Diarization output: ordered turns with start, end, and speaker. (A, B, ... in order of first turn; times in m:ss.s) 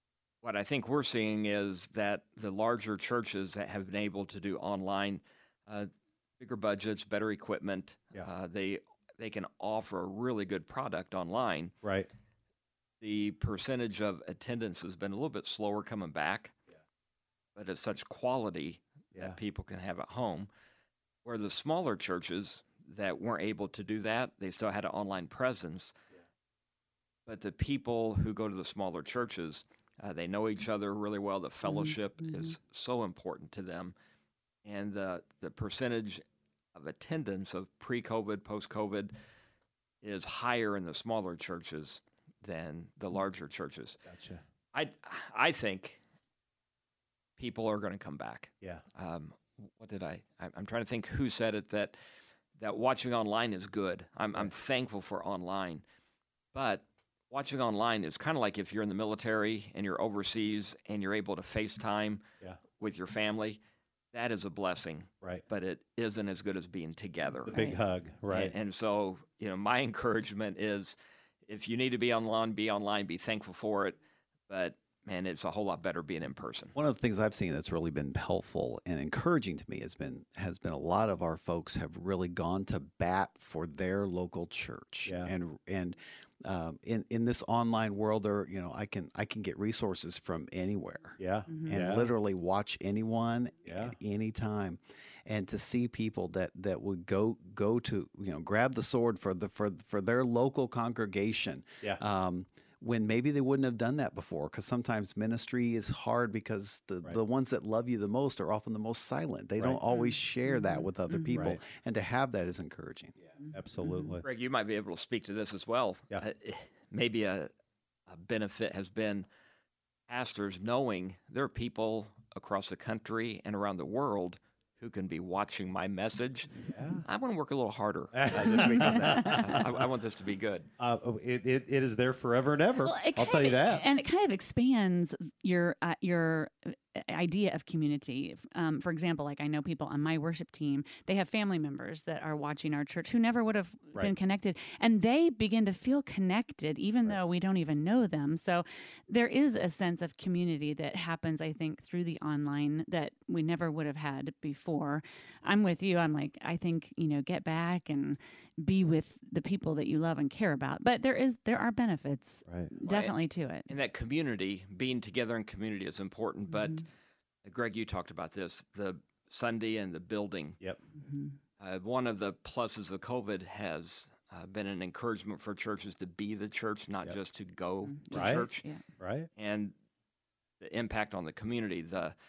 0:00.4-0:11.7 A
0:11.8-0:12.1 B
0:13.0-0:16.5 A
0:17.5-0:20.5 A
0:21.2-0:25.9 A
0:27.2-0:33.9 A
0:34.6-0:36.2 A
0:36.7-0:39.1 A
0:40.0-0:44.0 A
0:44.0-0:44.4 B
0:44.7-0:46.0 A
0:47.4-0:51.9 A
0:52.6-0:55.8 A
0:56.5-1:02.2 A
1:02.8-1:03.6 A
1:04.1-1:07.6 A
1:07.5-1:08.5 B
1:07.5-1:07.8 C
1:08.3-1:16.7 A
1:16.7-1:53.1 D
1:25.0-1:25.3 B
1:31.2-1:32.1 B
1:33.7-1:33.9 B
1:49.9-1:51.4 C
1:51.3-1:51.6 B
1:53.4-1:54.2 C
1:53.5-1:54.2 B
1:54.2-1:57.5 A
1:58.1-1:59.3 A
2:00.1-2:06.5 A
2:06.7-2:07.0 B
2:07.0-2:10.7 A
2:08.1-2:09.7 B
2:10.8-2:13.8 B
2:12.8-2:43.7 C
2:42.8-2:43.2 A
2:43.7-2:46.8 A
2:47.4-2:50.6 A
2:51.0-2:51.3 C
2:51.6-2:58.6 A
2:57.8-2:58.8 C
2:58.1-2:58.5 B
2:59.0-2:59.3 B
2:59.4-2:59.7 A
3:00.6-3:02.1 A